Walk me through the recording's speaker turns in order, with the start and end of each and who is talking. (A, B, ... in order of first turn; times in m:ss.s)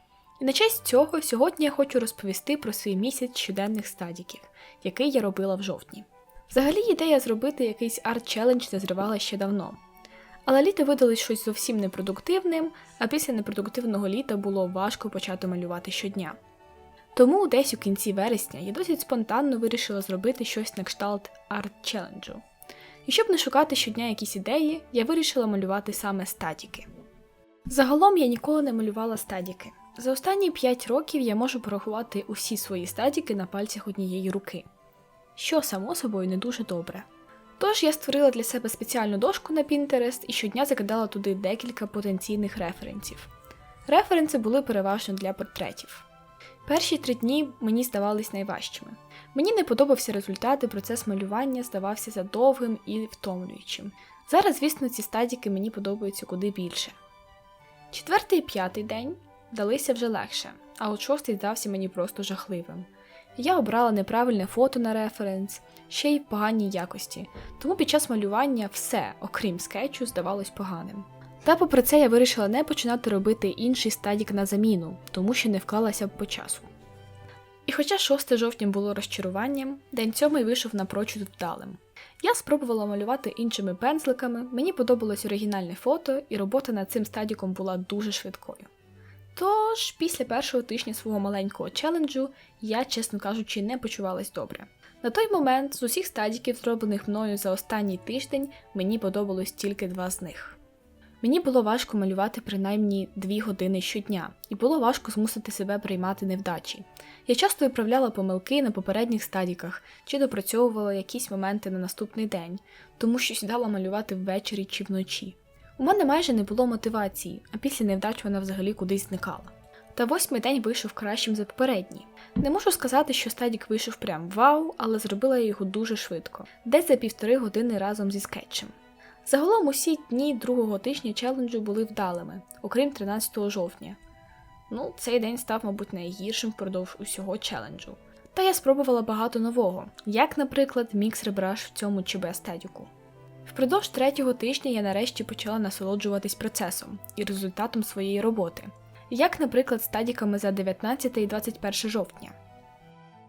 0:00.4-0:09.8 A
0:10.4-0:16.4 A
0:17.1-0:22.4 A
0:23.0-0:26.9 A
0:27.7-0:34.6 A
0:35.4-0:37.1 A
0:37.6-0:43.3 A
0:43.9-0:46.0 A
0:46.6-0:57.0 A
0:57.9-1:16.7 A
1:17.6-1:28.7 A
1:29.3-1:40.6 A
1:41.2-2:08.7 A
2:09.2-2:14.0 A
2:14.7-2:22.9 A
2:23.4-2:32.4 A